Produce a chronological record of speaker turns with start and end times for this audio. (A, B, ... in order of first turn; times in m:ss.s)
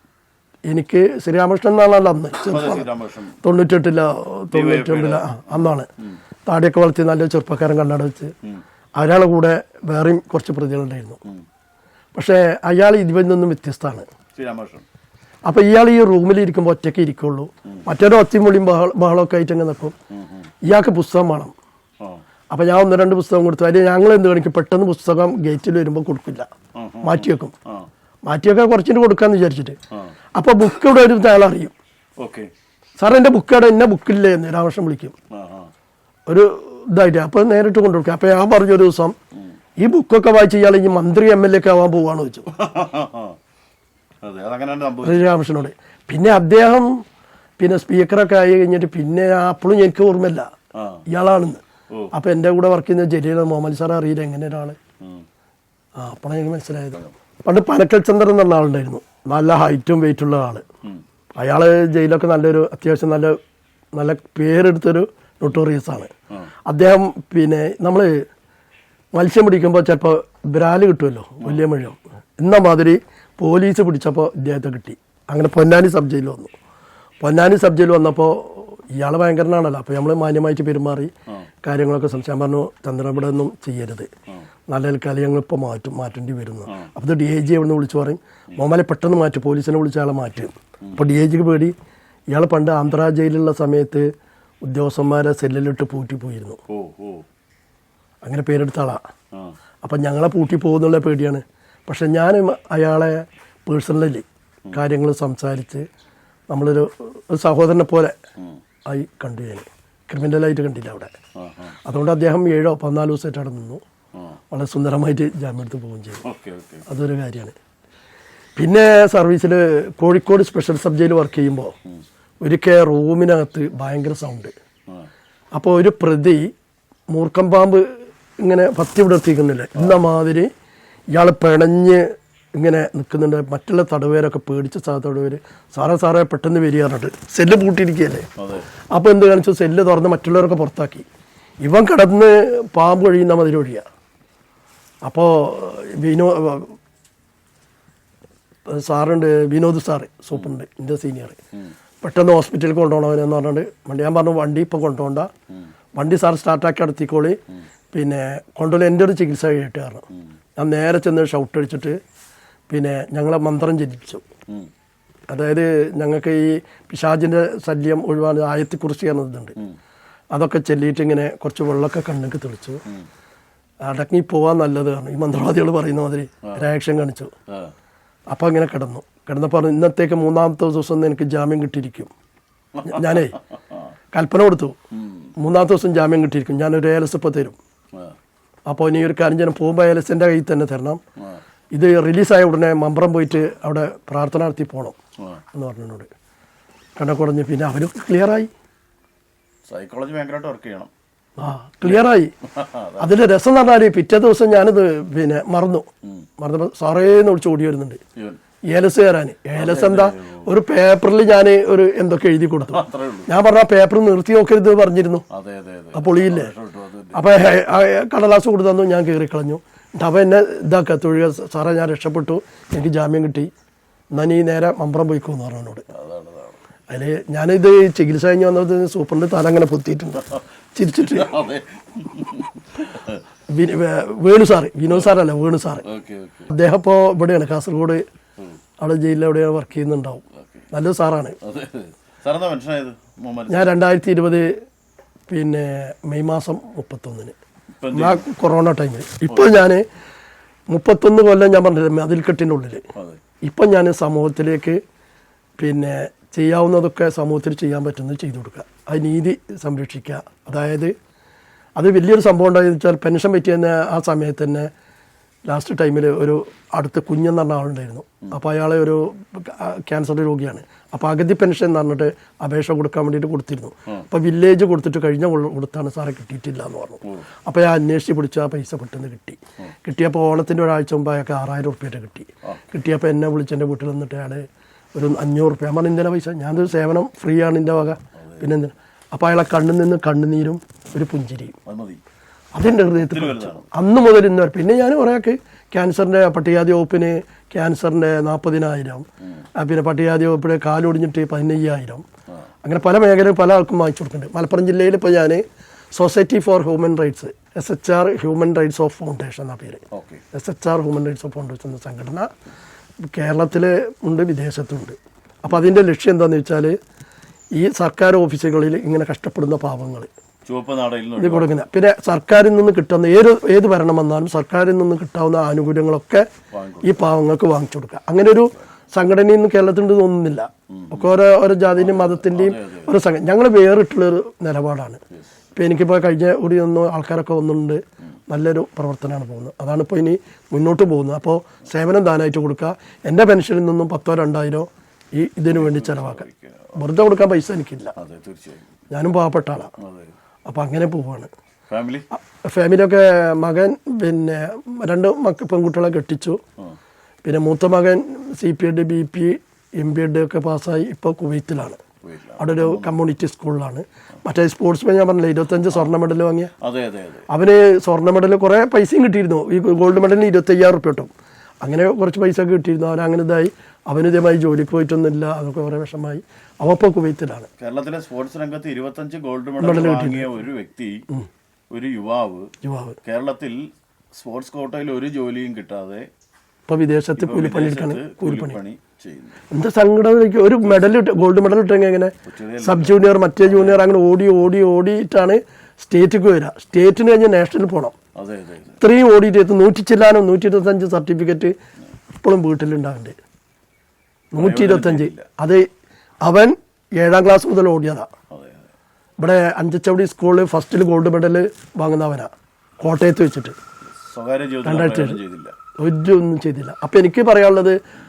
0:00.7-0:02.9 A
0:02.5-0:03.4 B
0:03.4-0:05.9 A
0:04.5-0:06.2 B
0:06.4-0:08.3 A
0:09.0-0:11.2 A
0:12.1-0:14.1 A
0:14.3-0:14.8 B
0:15.5-0:19.9 A
0:20.1-0:20.5 B
0:20.6-0:21.5 A
0:22.5-0:26.5 A
0:26.7-0:27.9 B
0:27.0-0:27.5 A
0:28.2-0:29.8 A
0:30.4-0:31.7 A
0:32.2-0:32.5 B
0:33.0-0:35.1 A
0:35.3-0:35.7 B
0:36.3-0:39.1 A
0:39.8-0:42.5 A
0:42.5-0:43.4 B
0:44.2-0:45.2 B
0:45.0-0:47.0 A
0:47.6-0:50.5 A
0:50.7-0:51.0 B
0:51.1-0:51.6 A
0:52.1-0:54.8 A
0:56.0-1:00.6 A
1:01.4-1:03.4 A
1:03.9-1:06.1 A
1:06.6-1:08.2 A
1:09.2-1:16.5 A
1:17.2-1:21.1 A
1:21.6-1:24.1 A
1:24.7-1:31.7 A
1:32.3-1:34.0 A
1:34.6-1:36.6 A
1:36.7-1:37.2 B
1:38.2-1:39.0 A
1:39.8-1:45.8 A
1:46.5-1:48.2 A
1:48.9-1:51.1 A
1:51.4-1:51.8 B
1:51.8-1:53.8 A
1:54.5-1:56.2 A
1:56.2-1:56.8 B
1:56.9-1:57.5 A
1:58.6-2:01.7 A
2:02.4-2:04.5 A
2:05.5-2:06.5 A
2:07.1-2:10.5 A
2:11.1-2:18.3 A
2:18.4-2:18.7 B
2:18.9-2:21.0 A
2:21.6-2:23.8 A
2:25.0-2:26.7 A
2:28.7-2:31.4 A
2:32.0-2:35.3 A
2:36.0-2:37.4 A
2:37.9-2:40.0 A
2:40.6-2:42.0 A
2:42.7-2:44.2 A
2:45.3-2:49.6 A
2:50.3-2:52.8 A
2:53.8-2:57.3 A
2:58.3-3:02.1 A
3:02.8-3:03.4 A
3:04.1-3:04.8 A
3:04.9-3:05.3 B
3:05.4-3:07.6 A
3:08.7-3:11.0 A
3:11.7-3:15.0 A
3:15.5-3:16.1 A
3:17.0-3:18.5 A
3:19.7-3:20.9 B
3:21.4-3:22.3 A
3:21.8-3:23.2 B
3:23.0-3:25.9 A
3:26.4-3:28.0 A
3:28.7-3:35.2 A
3:29.5-3:30.5 B
3:32.7-3:33.3 B
3:35.3-3:37.2 B
3:35.9-3:36.5 A
3:37.1-3:43.5 A
3:44.1-3:45.8 A
3:45.9-3:46.6 B
3:46.9-3:51.4 A
3:50.9-3:53.2 B
3:53.5-3:55.8 A
3:55.8-3:56.5 B
3:56.5-3:58.0 A
3:58.8-4:01.4 A
4:00.3-4:00.7 B
4:01.4-4:03.8 B
4:03.5-4:04.5 A
4:05.3-4:07.3 A
4:07.8-4:08.2 B
4:07.9-4:09.8 A
4:09.2-4:09.7 B
4:10.7-4:12.8 A
4:12.9-4:13.2 B
4:13.4-4:14.8 A
4:15.6-4:20.9 A
4:21.8-4:24.7 A
4:25.5-4:44.4 A
4:44.9-4:51.6 A
4:48.2-4:48.5 B
4:51.6-4:52.0 B
4:52.5-4:59.0 A
4:53.0-4:53.7 B
4:59.6-5:02.0 A
5:02.6-5:05.4 A
5:05.9-5:12.3 A
5:09.9-5:10.2 B
5:13.1-5:16.7 A
5:17.6-5:20.1 A
5:20.4-5:21.6 B
5:21.2-5:26.3 A
5:26.5-5:27.1 B
5:26.8-5:35.0 A
5:30.7-5:31.2 B
5:31.8-5:32.9 B
5:35.1-5:35.4 B
5:35.6-5:46.2 A
5:45.5-5:46.8 B
5:46.8-5:47.9 A
5:48.0-5:48.7 B
5:48.9-5:49.7 A
5:49.8-5:50.1 B
5:50.4-5:51.3 A
5:51.7-5:52.0 B
5:52.1-5:56.4 A
5:57.2-6:01.8 A
6:02.0-6:02.9 B
6:02.4-6:06.5 A
6:06.6-6:07.3 B
6:07.3-6:11.1 A
6:11.6-6:17.5 A
6:17.6-6:21.0 B
6:19.6-6:20.3 A
6:21.7-6:22.5 B
6:22.6-6:23.0 A
6:23.0-6:26.1 B
6:26.7-6:28.6 A
6:27.2-6:29.4 B
6:29.5-6:37.9 A
6:32.2-6:33.8 B
6:38.2-6:38.8 B
6:38.8-6:41.5 A
6:42.2-6:43.2 A
6:44.3-6:45.7 A
6:44.4-6:45.3 B
6:46.2-6:48.1 A
6:48.3-6:48.7 B
6:49.2-6:53.6 A
6:53.8-6:55.5 B
6:54.6-6:55.2 A
6:55.8-6:57.8 A